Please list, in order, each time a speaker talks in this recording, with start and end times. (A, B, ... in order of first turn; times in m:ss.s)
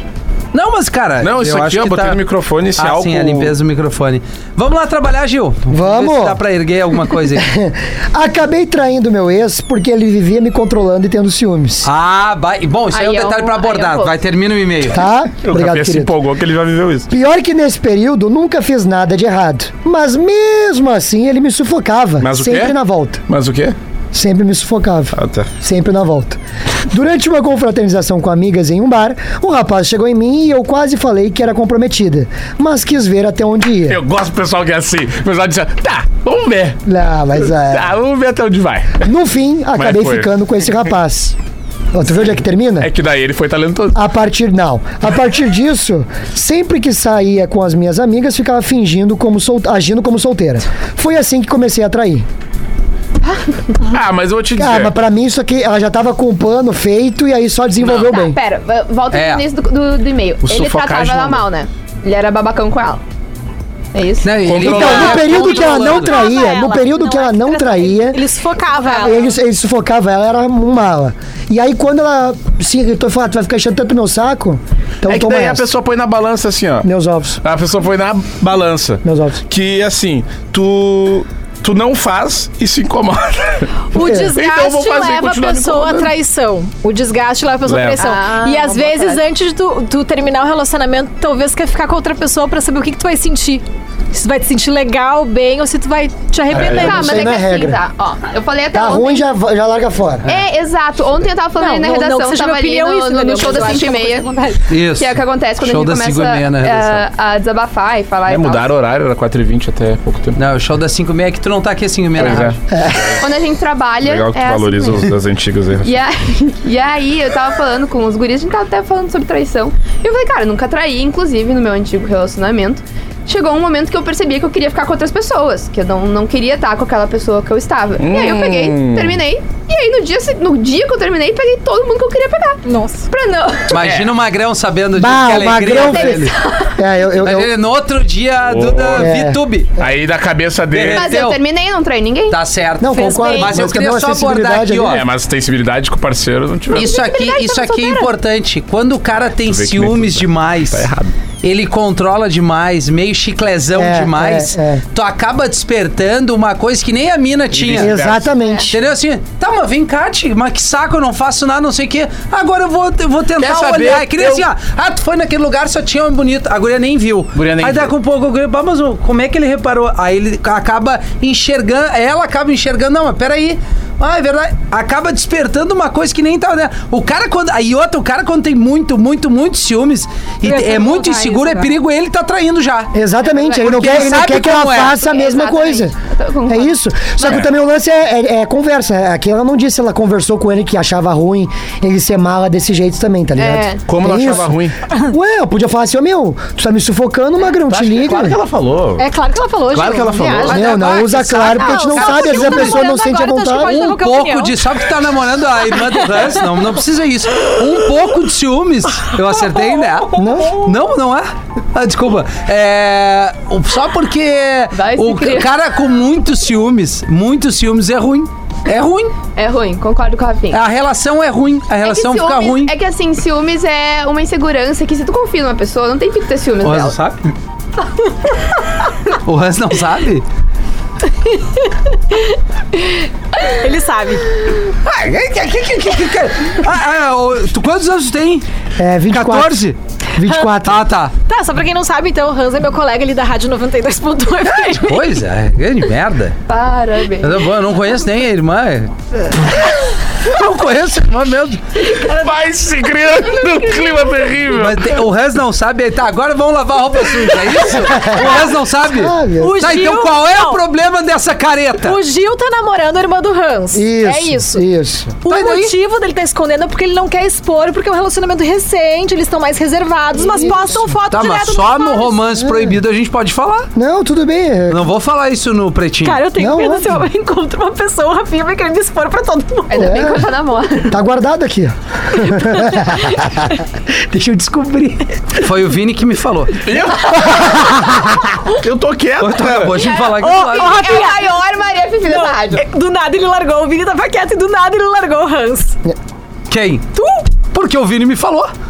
0:00.5-0:02.2 A
0:01.2-0:03.6 B
0:02.8-0:07.5 A
0:05.7-0:06.4 C
0:07.4-0:11.9 C
0:11.8-0:15.0 A
0:12.9-0:14.1 D
0:14.9-0:16.1 C
0:15.4-0:17.1 B
0:17.1-0:23.2 C
0:22.2-0:22.8 B
0:23.3-0:23.8 B
0:24.1-0:26.4 C
0:25.1-0:25.5 B
0:26.9-0:34.0 C
0:33.9-0:36.8 B
0:36.9-0:37.9 C
0:37.7-0:39.0 B
0:39.0-0:41.4 C
0:39.8-0:40.3 B
0:41.9-0:42.9 C
0:42.8-0:44.0 B
0:43.9-0:52.3 C
0:53.2-0:53.8 D
0:53.8-0:54.9 B
0:54.6-0:58.4 C
0:58.0-1:03.0 D
0:59.1-0:59.4 A
1:00.4-1:01.4 B
1:03.9-1:04.4 D
1:04.2-1:06.1 A
1:04.4-1:05.3 B
1:04.6-1:08.2 C
1:05.1-1:09.3 E
1:08.8-1:09.2 D
1:09.0-1:15.7 C
1:15.1-1:16.9 B
1:16.8-1:17.4 C
1:17.4-1:26.1 B
1:19.0-1:19.4 C
1:23.9-1:37.3 E
1:24.0-1:24.3 C
1:27.7-1:28.1 B
1:28.0-1:29.2 D
1:36.5-1:37.0 B
1:36.6-1:39.3 D
1:36.6-1:37.8 C
1:38.7-1:40.2 C
1:40.3-1:44.3 D
1:41.6-1:44.6 E
1:44.7-1:47.0 A
1:45.0-1:48.7 D
1:48.3-1:50.4 B
1:50.4-1:52.6 A
1:52.2-1:53.2 B
1:52.7-1:53.2 C
1:53.2-1:55.1 D
1:54.0-1:55.9 B
1:55.8-2:13.8 D
2:08.0-2:09.2 B
2:12.6-2:13.1 E
2:13.7-2:16.3 A
2:13.8-2:14.1 B
2:15.0-2:17.5 C
2:15.9-2:16.8 D
2:17.2-2:19.7 A
2:18.5-2:19.1 B
2:19.0-2:19.4 C
2:19.8-2:21.2 B
2:20.7-2:21.4 A
2:20.9-2:22.4 D
2:22.3-2:25.0 A
2:22.8-2:25.0 C
2:22.9-2:23.6 E
2:24.9-2:26.9 B
2:26.7-2:30.9 A
2:26.8-2:28.1 E
2:29.4-2:31.1 B
2:31.4-2:38.0 A
2:33.8-2:34.8 C
2:37.5-2:38.3 B
2:37.8-2:38.8 C
2:38.7-3:02.9 A
2:43.4-2:44.5 B
2:47.4-2:47.9 B
3:00.4-3:01.8 E
3:02.9-3:06.0 C
3:03.2-3:03.8 D
3:03.6-3:05.0 A
3:05.0-3:07.4 D
3:06.5-3:18.4 C
3:13.4-3:13.8 D
3:13.9-3:14.7 B
3:17.7-3:19.0 B
3:19.0-3:24.6 E
3:19.7-3:20.7 B
3:20.4-3:22.8 A
3:20.5-3:23.9 C
3:23.6-3:39.2 A
3:30.2-3:30.7 C
3:34.7-3:35.5 D
3:39.4-3:40.6 D
3:40.5-3:42.7 A
3:41.8-3:47.0 D
3:46.6-3:47.2 A
3:49.1-3:50.2 A
3:51.2-3:54.2 E
3:54.8-3:58.5 A
3:58.8-3:59.6 C
3:59.1-3:59.8 A
4:00.2-4:00.8 C
4:00.6-4:01.1 A
4:01.2-4:05.1 E
4:04.7-4:06.4 A
4:06.5-4:07.4 D
4:07.2-4:09.6 A
4:10.2-4:11.6 A
4:12.0-4:15.0 B
4:14.6-4:22.0 A
4:18.0-4:18.3 C
4:18.9-4:19.6 C
4:19.4-4:20.6 E
4:21.8-4:24.6 E
4:23.7-4:25.2 C
4:25.2-4:32.2 E
4:25.3-4:25.7 A
4:30.3-4:30.8 C
4:31.1-4:33.7 A
4:33.8-4:34.8 C
4:34.7-4:36.2 A
4:36.0-4:40.0 E
4:36.4-4:37.0 C
4:39.7-4:41.0 D
4:39.8-4:40.3 C
4:40.9-4:45.2 C
4:42.5-4:43.0 E
4:45.3-4:46.6 A
4:46.6-4:47.7 B
4:47.3-4:48.2 C
4:48.4-4:49.8 B
4:49.2-4:50.7 A
4:49.8-4:52.6 D
4:50.1-4:51.4 E
4:52.1-4:55.8 E
4:56.5-4:56.9 A
4:57.0-4:57.3 E
4:57.5-4:58.5 A